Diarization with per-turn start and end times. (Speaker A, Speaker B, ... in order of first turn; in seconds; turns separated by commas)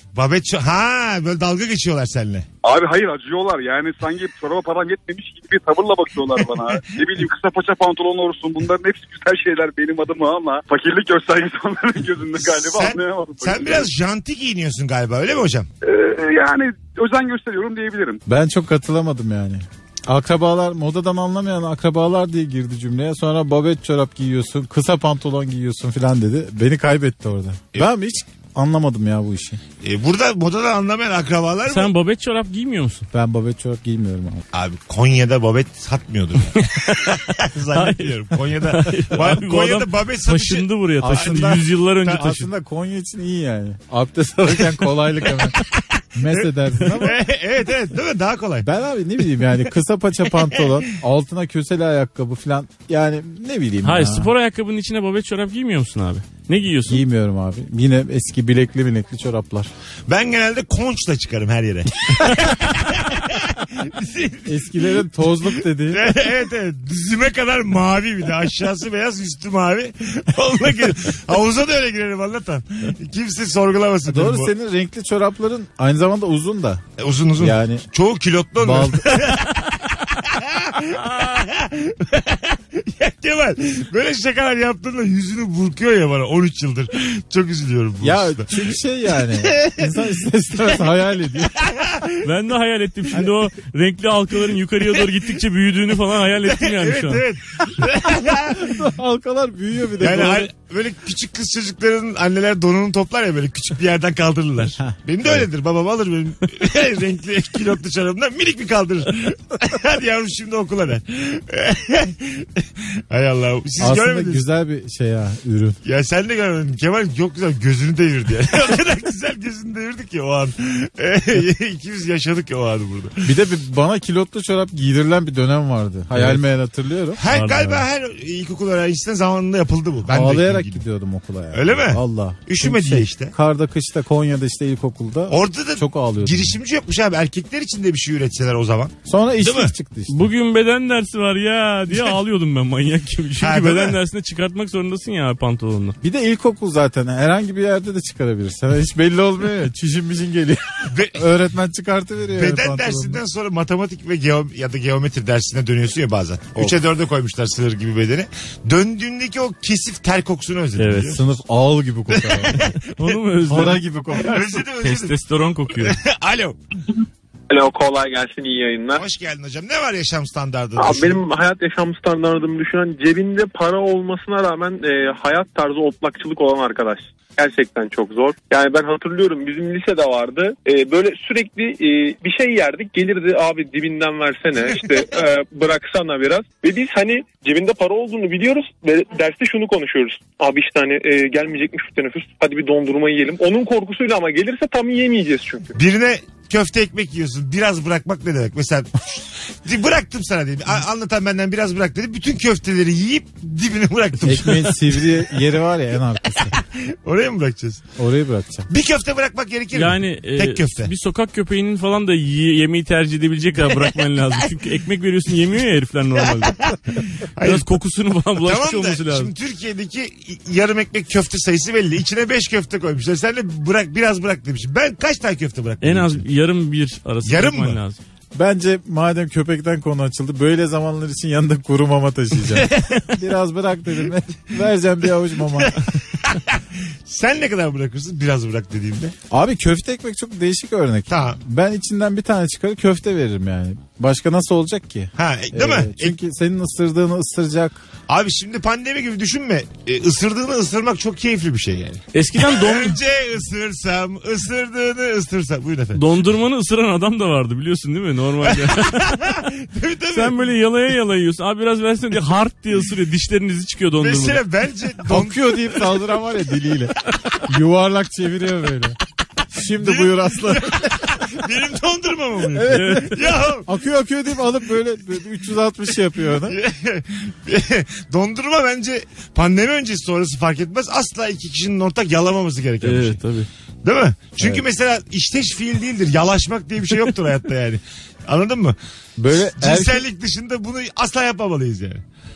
Speaker A: 0.1-2.5, Speaker B: 2.6-13.9, Speaker A: 12.5-15.7, Speaker B: 15.8-18.2, Speaker C: 18.3-29.6, Speaker A: 29.8-31.9, Speaker D: 31.7-33.1, Speaker C: 33.1-34.4, Speaker A: 34.5-41.6, Speaker D: 36.5-42.5, Speaker C: 41.0-45.6, Speaker C: 46.1-47.2, Speaker A: 47.0-48.7, Speaker C: 48.6-54.3, Speaker D: 53.8-57.0, Speaker C: 56.9-59.7, Speaker A: 60.1-65.0, Speaker C: 64.5-66.2, Speaker A: 65.9-74.5, Speaker C: 74.0-76.8, Speaker A: 77.0-88.7, Speaker C: 77.4-77.8, Speaker C: 78.6-79.2, Speaker C: 88.0-91.6, Speaker A: 89.5-89.9, Speaker A: 91.6-92.2, Speaker D: 92.2-97.2, Speaker A: 96.4-98.9, Speaker C: 98.6-100.5, Speaker A: 100.0-114.4, Speaker C: 104.8-105.5, Speaker C: 113.8-115.8, Speaker A: 115.8-123.2, Speaker C: 123.2-127.2, Speaker D: 126.1-126.4, Speaker A: 127.2-130.8, Speaker D: 127.2-127.8, Speaker C: 130.1-136.6, Speaker A: 131.5-133.3, Speaker A: 135.3-139.7, Speaker C: 139.1-140.2, Speaker D: 140.1-145.9, Speaker A: 143.4-144.0, Speaker C: 146.0-150.6, Speaker A: 150.9-151.2, Speaker C: 151.1-153.2, Speaker A: 152.3-161.2, Speaker D: 160.8-161.2, Speaker C: 161.1-162.6, Speaker A: 162.1-165.2, Speaker D: 162.9-163.8, Speaker C: 163.5-164.6, Speaker D: 164.8-165.9, Speaker A: 165.8-166.6, Speaker E: 167.5-169.0, Speaker A: 168.9-171.2, Speaker E: 170.8-195.8, Speaker A: 195.7-205.3, Speaker C: 204.2-206.5, Speaker A: 206.4-207.9, Speaker C: 208.0-208.7, Speaker A: 208.7-210.9, Speaker D: 209.7-216.7, Speaker A: 216.2-217.7, Speaker D: 217.4-219.3, Speaker A: 218.4-226.2, Speaker D: 225.8-228.0, Speaker A: 227.2-227.8, Speaker C: 228.3-235.8, Speaker A: 232.4-233.2, Speaker A: 235.5-239.1, Speaker C: 239.3-247.8, Speaker A: 241.1-241.4, Speaker A: 245.2-246.1, Speaker A: 248.1-256.0, Speaker D: 252.1-253.0, Speaker D: 255.9-259.1, Speaker A: 258.4-260.4, Speaker D: 260.1-264.4, Speaker A: 264.0-265.7, Speaker C: 265.1-269.0, Speaker C: 269.5-271.1, Speaker A: 269.8-273.7, Speaker C: 272.5-276.6, Speaker D: 272.7-273.2, Speaker A: 276.5-283.2, Speaker D: 282.8-283.5, Speaker A: 283.8-288.8, Speaker C: 289.2-290.1, Speaker A: 289.6-292.0